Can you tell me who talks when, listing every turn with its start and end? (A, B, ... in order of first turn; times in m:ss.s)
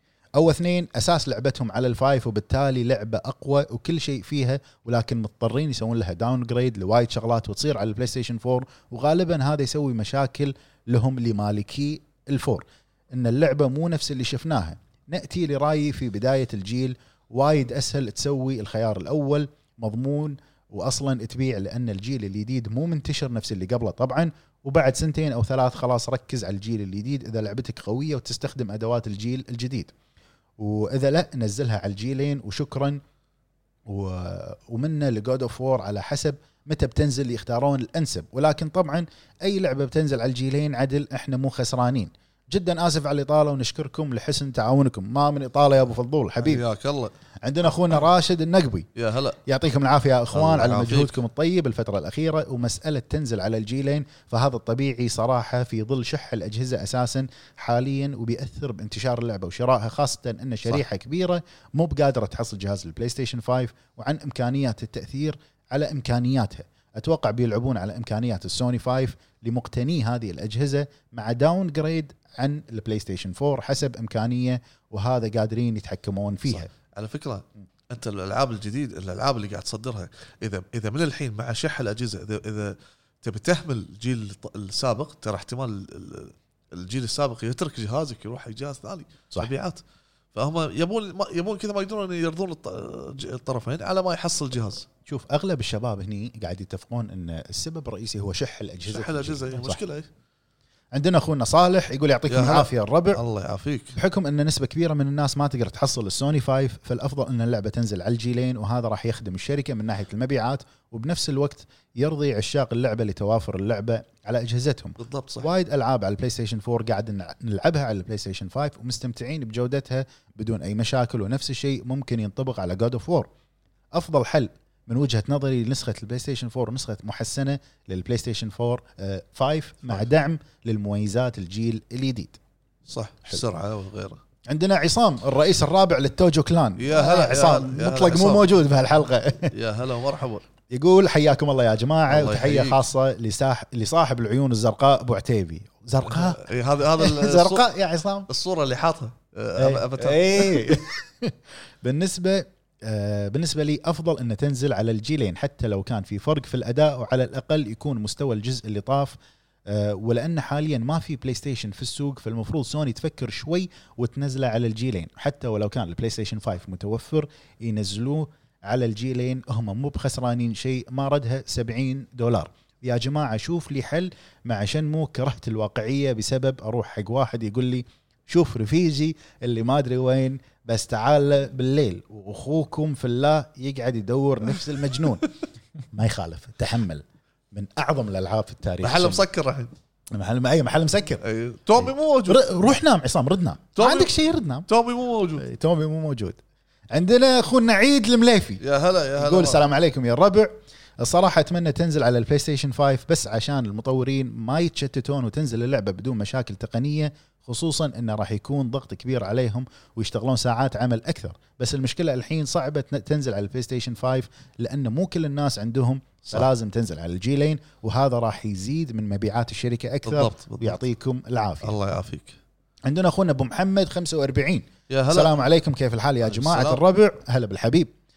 0:00.4-0:29.9 A
0:30.6-0:33.0 A
0:33.9-0:46.6 A
0:46.4-0:47.1 B
0:47.4-0:48.9 A
0:49.0-0:49.4 B
0:49.4-1:16.7 A
0:50.3-0:51.2 B
1:16.5-1:29.8 B
1:30.3-1:34.9 B
1:35.0-1:39.8 A
1:38.9-1:40.1 B
1:40.9-1:43.2 A
1:42.3-1:44.0 B
1:43.9-2:03.3 A
1:55.0-1:55.5 B
2:03.9-2:12.4 A
2:12.9-2:14.2 B
2:14.5-2:19.5 A
2:16.8-2:18.5 B
2:19.5-2:20.4 B
2:20.7-2:28.3 A
2:22.1-2:22.8 B
2:26.0-2:27.6 B
2:28.3-2:30.8 B
2:29.6-2:39.2 A
2:39.7-3:05.3 A
3:05.9-3:09.2 A
3:08.8-3:09.7 B
3:10.1-3:11.2 A
3:11.2-3:12.4 B
3:11.8-3:14.7 A
3:13.8-3:14.1 B
3:14.7-3:15.4 B
3:15.4-3:16.4 A
3:16.9-3:18.6 A
3:18.6-3:19.6 B
3:19.2-3:41.7 A
3:40.0-3:40.8 B
3:41.6-3:42.4 B
3:42.8-3:47.9 A
3:44.9-3:45.4 B
3:46.2-3:46.8 B